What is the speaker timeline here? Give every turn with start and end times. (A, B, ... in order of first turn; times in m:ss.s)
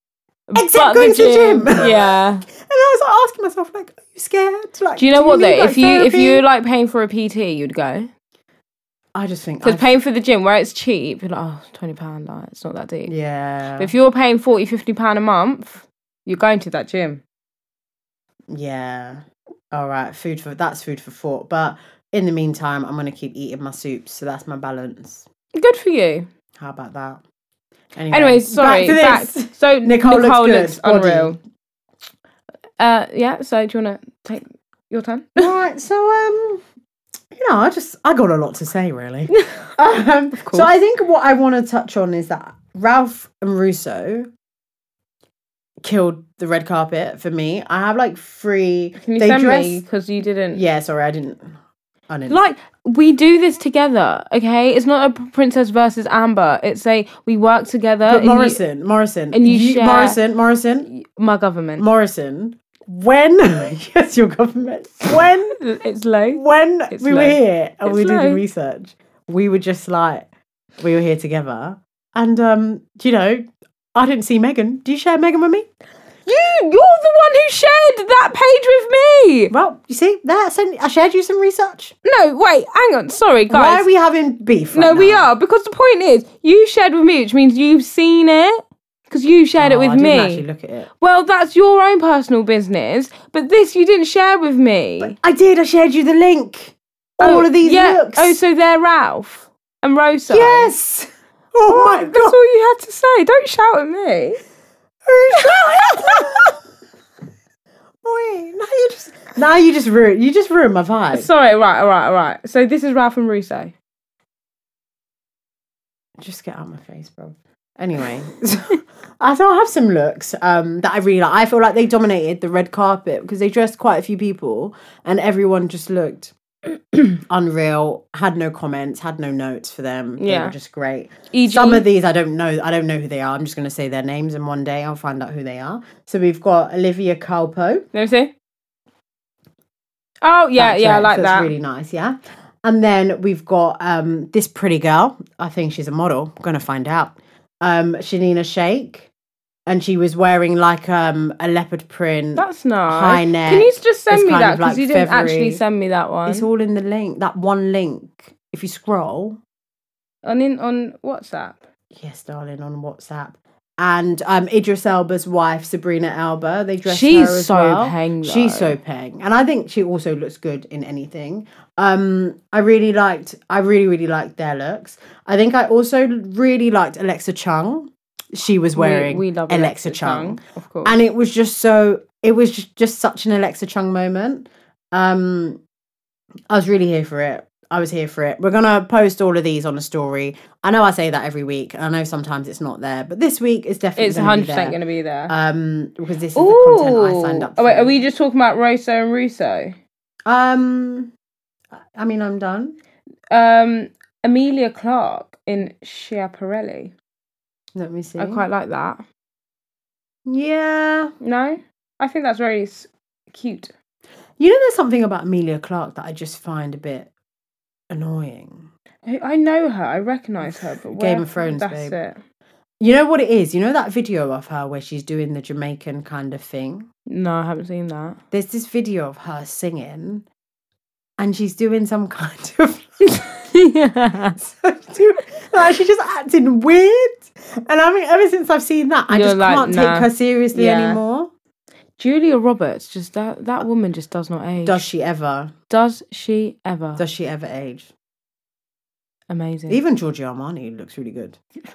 0:00.5-0:02.4 A
0:00.5-0:06.4 B
0:05.0-0:08.1 A
0:09.1-0:09.9 B
0:09.6-0:13.1 A
0:13.0-0:13.9 B
0:13.8-0:17.2 A
0:18.5-0:25.2 B
0:25.6-0:26.3 A
0:26.6-0:27.2 B
0:27.9-0:31.4 B
0:28.1-0:31.4 A
0:32.8-0:35.5 A
0:35.4-0:36.6 B
0:37.3-0:44.3 B
0:40.3-0:40.7 A
0:45.8-0:49.8 B
0:49.0-0:50.6 A
0:50.5-0:51.6 B
0:52.1-0:52.4 B
0:52.3-0:58.6 A
0:58.0-1:00.9 B
0:59.3-1:00.2 A
1:00.9-1:01.8 A
1:01.8-1:05.6 B
1:05.6-1:08.4 A
1:06.3-1:10.3 B
1:10.8-1:15.7 B
1:16.2-1:19.5 A
1:19.5-1:21.9 B
1:22.0-1:23.9 A
1:23.5-1:25.3 B
1:24.7-1:30.4 A
1:29.6-1:30.9 B
1:31.0-1:35.2 A
1:35.0-1:38.4 B
1:37.2-1:40.7 A
1:40.3-1:42.4 B
1:41.7-1:44.4 A
1:45.0-1:46.5 B
1:45.4-1:46.5 A
1:48.0-1:51.3 B
1:51.1-1:53.7 A
1:56.2-2:06.3 B
2:07.2-2:17.8 B
2:10.2-2:10.5 A
2:11.3-2:11.8 A
2:17.9-2:18.3 A
2:20.2-2:21.5 A
2:20.6-2:29.1 B
2:29.7-2:35.6 B
2:32.4-2:36.5 A
2:36.2-2:39.4 B
2:40.2-2:41.6 A
2:41.9-3:05.6 B
2:46.8-2:48.8 A
2:58.8-3:01.0 A
3:06.5-3:18.0 B
3:14.0-3:15.3 A
3:16.3-3:19.8 A
3:20.2-3:21.1 B
3:21.9-3:22.8 B
3:23.3-3:26.9 A
3:27.7-3:28.4 B
3:28.2-3:29.0 A
3:30.2-3:31.1 B
3:31.2-3:33.7 A
3:34.4-3:37.1 B
3:37.9-3:38.7 B
3:39.0-3:42.2 A
3:40.4-3:42.0 B
3:42.8-3:46.9 B
3:47.1-3:48.2 A
3:48.3-3:50.2 B
3:51.2-3:53.0 B
3:53.2-3:54.4 A
3:54.4-4:01.3 B
3:59.1-4:01.0 A
4:02.0-4:04.8 A
4:04.6-4:05.5 B
4:05.7-4:07.0 A
4:07.0-4:07.9 B
4:09.3-4:09.8 A
4:09.7-4:11.4 B